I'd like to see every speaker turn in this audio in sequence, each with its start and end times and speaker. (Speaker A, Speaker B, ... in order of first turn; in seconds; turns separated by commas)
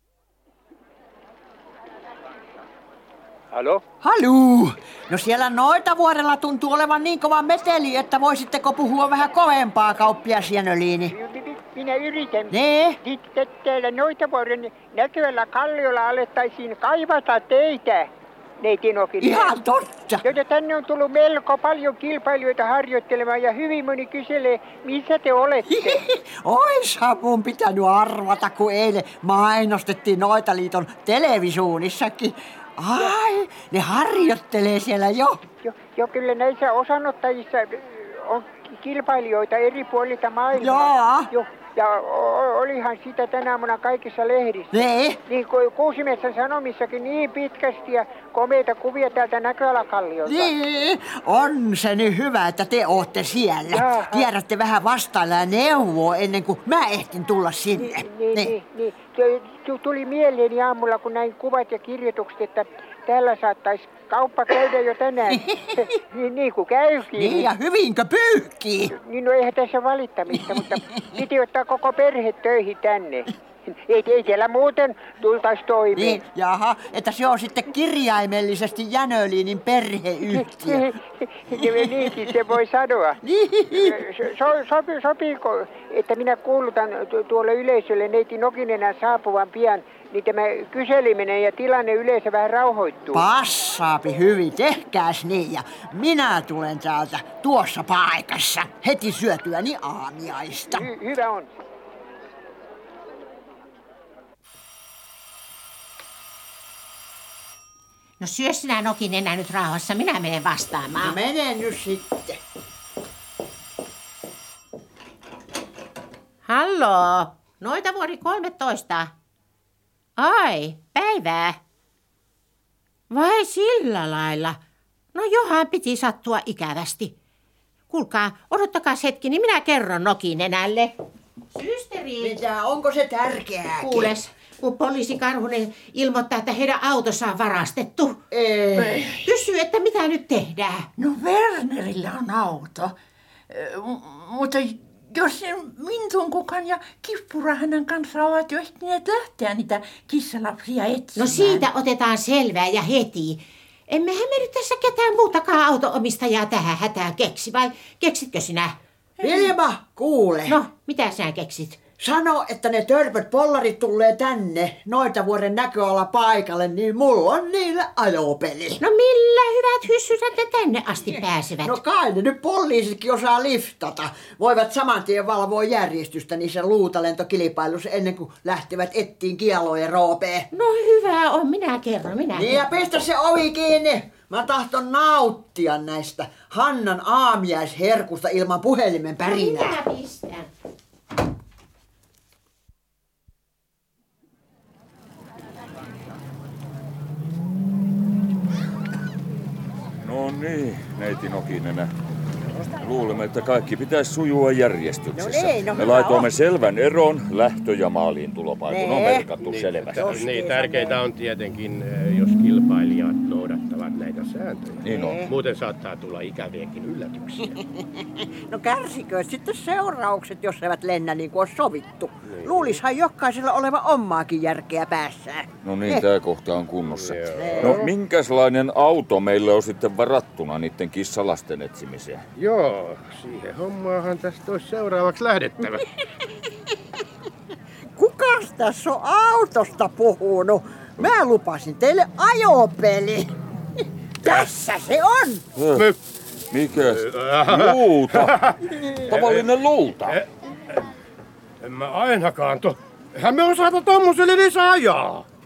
Speaker A: 3.5-3.8, Speaker B: 4.0-11.1, Speaker C: 11.1-19.6, Speaker B: 12.5-13.0, Speaker B: 19.2-20.2, Speaker C: 20.2-26.0, Speaker B: 25.7-35.4, Speaker C: 35.6-44.7, Speaker B: 40.5-41.3, Speaker B: 44.7-45.2, Speaker C: 45.3-50.5, Speaker B: 50.2-58.5, Speaker C: 53.7-54.3, Speaker C: 57.8-67.5, Speaker B: 65.3-65.9, Speaker B: 67.1-68.9, Speaker C: 68.9-76.2, Speaker B: 70.4-71.2, Speaker B: 75.9-80.9, Speaker C: 80.3-83.2, Speaker B: 81.6-82.3, Speaker B: 83.2-84.0, Speaker C: 83.7-93.3, Speaker B: 93.2-100.9, Speaker C: 100.7-101.5, Speaker D: 108.2-111.2, Speaker B: 110.9-112.4, Speaker D: 116.5-119.1, Speaker D: 120.2-121.6, Speaker D: 123.1-124.6, Speaker D: 125.1-127.2, Speaker D: 127.9-130.9, Speaker D: 131.5-132.4, Speaker B: 132.2-134.1, Speaker D: 133.8-138.2, Speaker B: 138.3-139.1, Speaker E: 138.8-139.2, Speaker D: 139.2-140.9, Speaker E: 141.0-142.9, Speaker E: 143.5-151.7, Speaker D: 151.2-158.8, Speaker E: 159.2-159.5, Speaker B: 159.2-160.6, Speaker D: 160.5-161.8, Speaker B: 162.0-168.8, Speaker D: 168.8-171.8, Speaker B: 171.1-180.5, Speaker D: 180.5-182.7, Speaker B: 182.3-189.8, Speaker D: 189.2-190.5, Speaker F: 200.0-201.9, Speaker F: 202.7-210.2, Speaker B: 205.1-206.3, Speaker B: 208.7-209.3, Speaker A: 209.4-217.6, Speaker B: 210.0-211.0, Speaker F: 214.8-215.2, Speaker B: 214.9-215.3, Speaker B: 218.5-226.1, Speaker A: 222.3-222.8, Speaker F: 225.6-232.2, Speaker A: 226.9-227.9, Speaker B: 227.4-227.8, Speaker A: 232.4-235.8, Speaker B: 238.0-243.3, Speaker B: 244.2-245.5, Speaker F: 245.6-245.9, Speaker F: 246.5-248.4, Speaker A: 246.8-249.5, Speaker B: 248.7-249.1, Speaker F: 249.1-250.2, Speaker A: 250.0-250.9, Speaker A: 251.6-255.3